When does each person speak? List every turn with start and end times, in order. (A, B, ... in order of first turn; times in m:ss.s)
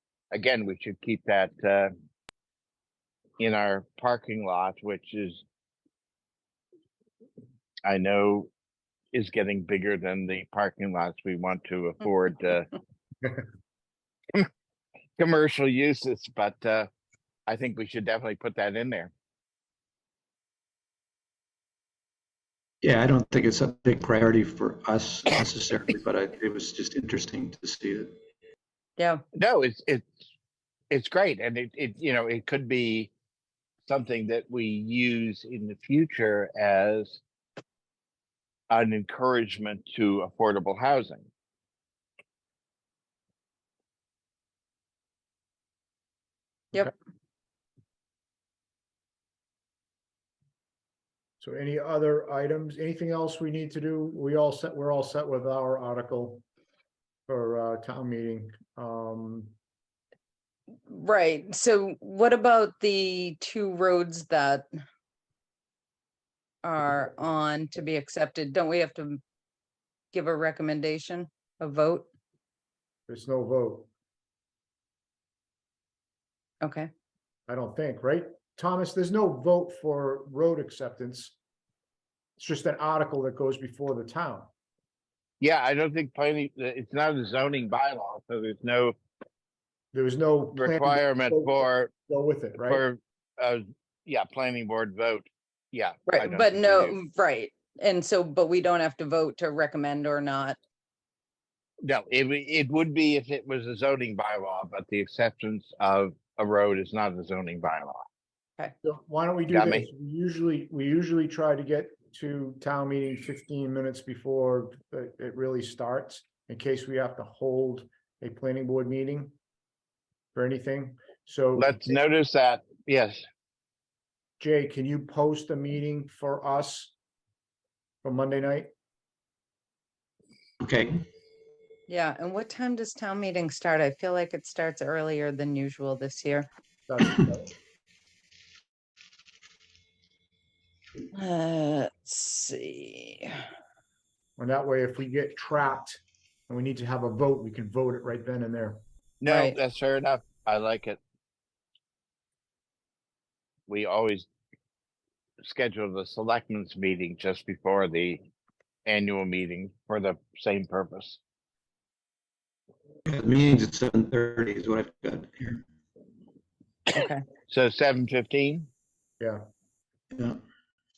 0:00.3-0:01.9 A
0:03.4-0:05.4 A
0:07.9-0:08.5 A
0:09.1-0:12.7 A
0:15.2-0:16.9 A
0:17.5-0:19.1 A
0:22.8-0:28.2 B
0:29.4-0:30.2 A
0:30.9-0:33.1 A
0:33.8-0:37.2 A
0:38.7-0:41.3 A
0:51.4-0:56.4 C
0:57.3-0:59.5 C
1:00.9-1:04.7 D
1:06.6-1:09.2 D
1:10.1-1:12.1 D
1:13.1-1:13.9 C
1:16.6-1:16.9 D
1:17.5-1:21.4 C
1:22.4-1:24.5 C
1:25.4-1:29.0 A
1:29.9-1:32.8 C
1:30.6-1:31.9 A
1:32.6-1:37.0 A
1:36.1-1:40.6 D
1:41.8-1:48.0 A
1:48.8-1:59.3 C
1:49.5-1:49.9 A
2:00.3-2:02.0 C
2:01.6-2:03.2 A
2:04.4-2:06.9 C
2:08.0-2:08.7 C
2:10.6-2:11.0 B
2:11.9-2:16.5 D
2:16.9-2:17.5 C
2:21.1-2:23.4 D
2:24.4-2:28.8 C
2:29.2-2:31.0 A
2:29.3-2:29.6 D
2:33.7-2:34.3 A
2:35.4-2:38.2 A
2:38.9-2:41.2 A
2:43.0-2:45.6 B
2:46.9-2:47.2 D
2:47.5-2:48.7 A
2:50.1-2:50.4 B